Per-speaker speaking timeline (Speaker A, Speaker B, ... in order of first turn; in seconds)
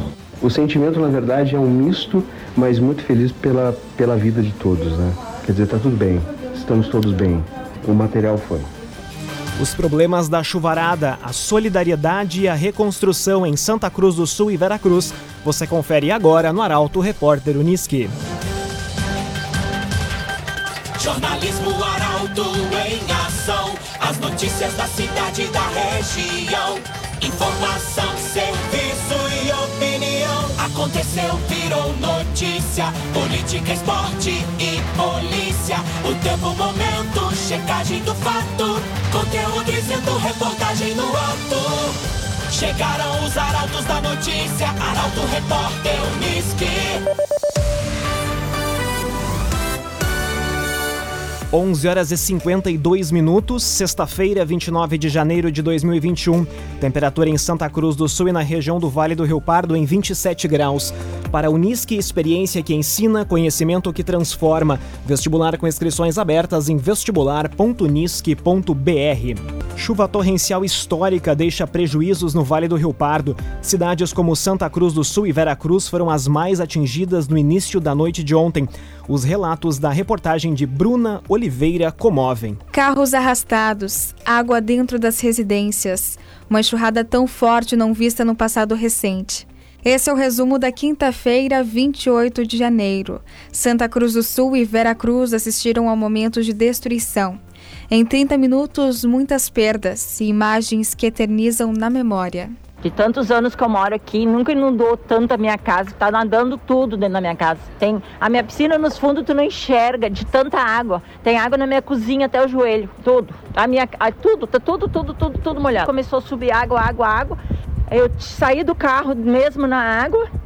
Speaker A: 0.4-8.7
Speaker B: 9.6-18.1, 51.5-82.6
Speaker C: 21.0-42.0, 42.5-47.0
Speaker D: 82.7-97.4, 97.9-102.5
Speaker E: 102.8-117.4, 117.9-120.2